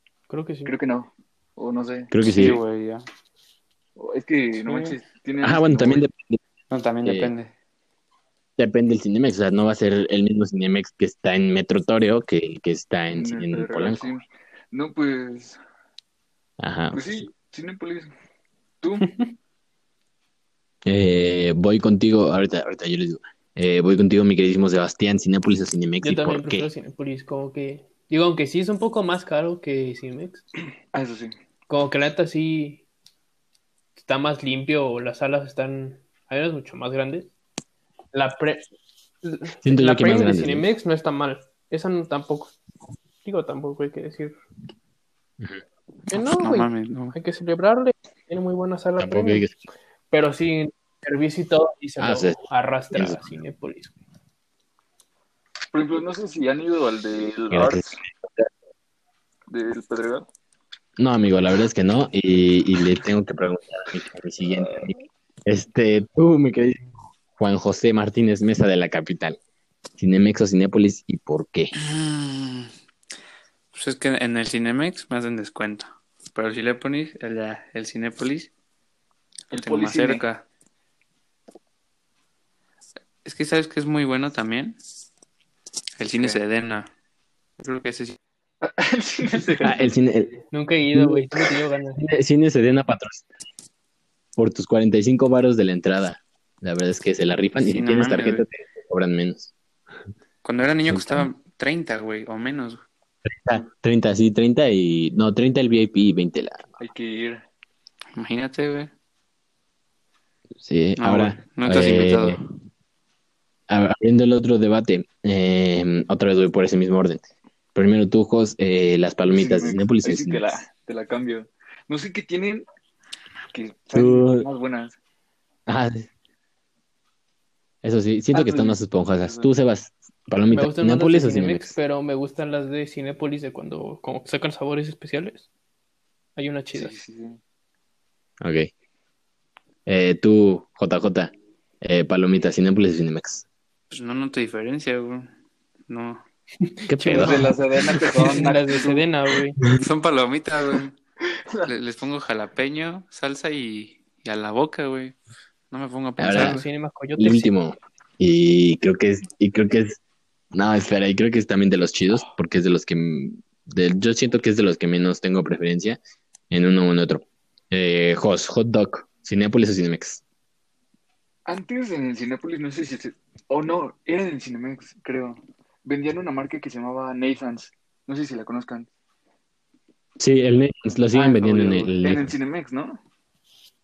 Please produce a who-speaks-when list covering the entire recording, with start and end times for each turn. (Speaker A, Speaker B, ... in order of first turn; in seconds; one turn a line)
Speaker A: 0.3-0.7
Speaker B: 0.6-2.1
Speaker C: 2.1-2.6
Speaker D: 2.2-3.0
Speaker B: 4.0-6.0
Speaker D: 4.6-4.9
Speaker C: 5.4-6.4
Speaker D: 6.7-7.5
Speaker C: 7.0-7.3
Speaker C: 8.6-14.1
Speaker B: 13.1-15.6
Speaker C: 16.6-17.1
Speaker B: 16.9-18.1
Speaker B: 18.8-19.1
Speaker C: 20.8-26.7
Speaker A: 26.0-30.4
Speaker B: 30.9-31.3
Speaker A: 31.7-32.8
Speaker A: 34.0-37.3
Speaker A: 38.1-38.7
Speaker A: 39.2-42.5
Speaker C: 39.6-40.7
Speaker A: 43.2-44.4
Speaker A: 46.1-49.5
Speaker D: 46.1-47.1
Speaker C: 49.0-49.6
Speaker A: 50.1-53.9
Speaker C: 52.0-52.4
Speaker C: 52.9-53.3
Speaker B: 55.7-58.0
Speaker C: 57.5-58.5
Speaker B: 59.5-60.3
Speaker C: 61.0-64.9
Speaker B: 64.5-64.9
Speaker C: 65.5-69.4
Speaker C: 70.0-71.7
Speaker D: 71.7-72.7
Speaker D: 73.7-78.5
Speaker B: 79.5-80.2
Speaker D: 79.5-80.4
Speaker D: 83.2-84.8
Speaker D: 86.0-86.9
Speaker D: 87.6-88.2
Speaker B: 88.6-89.9
Speaker C: 89.6-90.4
Speaker A: 90.5-92.0
Speaker C: 90.9-91.3
Speaker C: 92.0-93.2
Speaker C: 94.3-99.5
Speaker D: 97.6-98.5
Speaker D: 100.4-102.8
Speaker C: 100.9-101.3
Speaker C: 103.2-106.7
Speaker B: 106.8-107.4
Speaker D: 108.2-108.9
Speaker C: 110.6-112.4
Speaker D: 111.0-112.5
Speaker C: 113.7-120.7
Speaker B: 119.2-122.6
Speaker B: 123.5-125.0
Speaker C: 123.9-124.5
Speaker C: 125.7-126.1
Speaker C: 127.8-131.7
Speaker B: 128.3-129.5
Speaker A: 130.5-135.5
Speaker A: 136.3-136.9
Speaker B: 136.7-137.4
Speaker C: 138.4-138.7
Speaker C: 139.8-143.4
Speaker D: 143.9-145.3
Speaker D: 145.9-146.2
Speaker C: 146.8-147.4
Speaker D: 147.0-147.5
Speaker B: 147.1-149.1
Speaker A: 147.9-149.6
Speaker D: 149.7-150.9
Speaker B: 151.4-151.7
Speaker D: 151.7-155.2
Speaker D: 155.7-156.6
Speaker C: 156.2-156.6
Speaker A: 156.3-157.5
Speaker C: 157.2-160.0
Speaker C: 160.5-166.0
Speaker C: 166.5-170.2
Speaker B: 171.4-178.9
Speaker C: 180.2-182.4
Speaker D: 181.1-182.0
Speaker B: 182.0-183.0